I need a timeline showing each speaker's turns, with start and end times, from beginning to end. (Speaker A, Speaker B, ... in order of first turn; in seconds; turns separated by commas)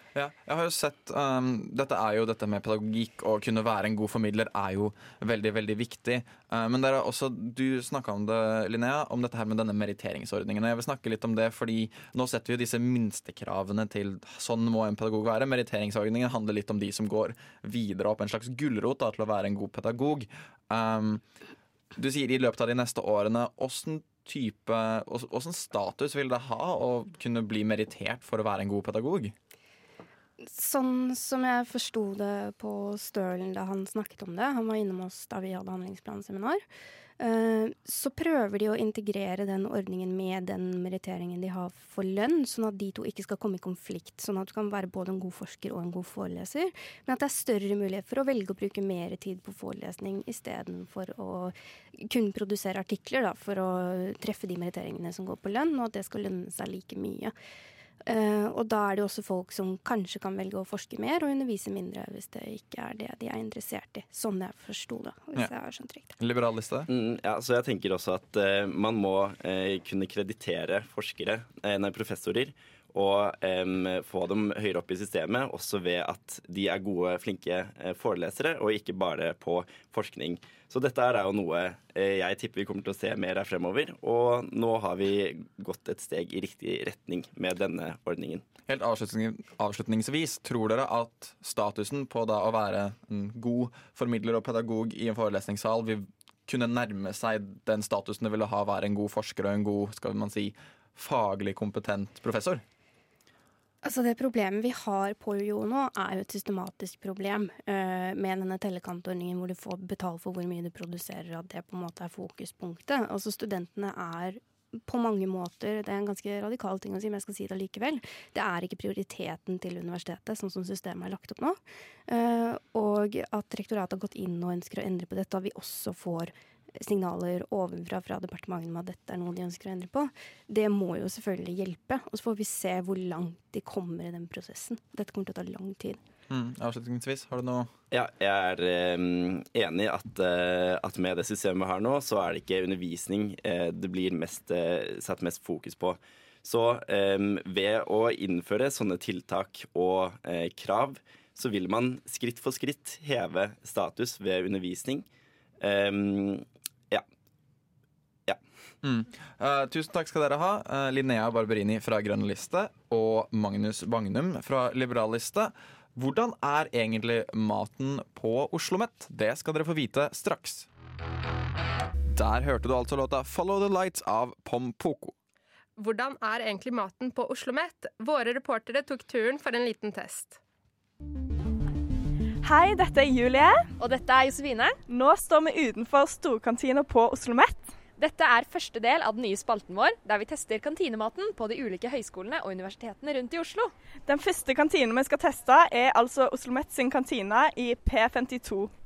Speaker A: 0.1-21.2, Speaker A: 21.9-29.3, Speaker B: 30.4-36.6, Speaker B: 37.2-57.3, Speaker B: 58.0-66.1, Speaker A: 66.2-66.9, Speaker C: 66.9-88.4, Speaker A: 88.7-102.6, Speaker B: 103.8-136.0, Speaker A: 136.3-137.7, Speaker C: 137.9-155.1, Speaker C: 155.6-157.0, Speaker A: 158.8-170.7, Speaker A: 172.1-175.1, Speaker D: 175.8-180.4, Speaker E: 182.4-183.7, Speaker F: 183.8-184.8, Speaker E: 184.9-187.7, Speaker F: 188.0-193.7, Speaker E: 194.1-198.7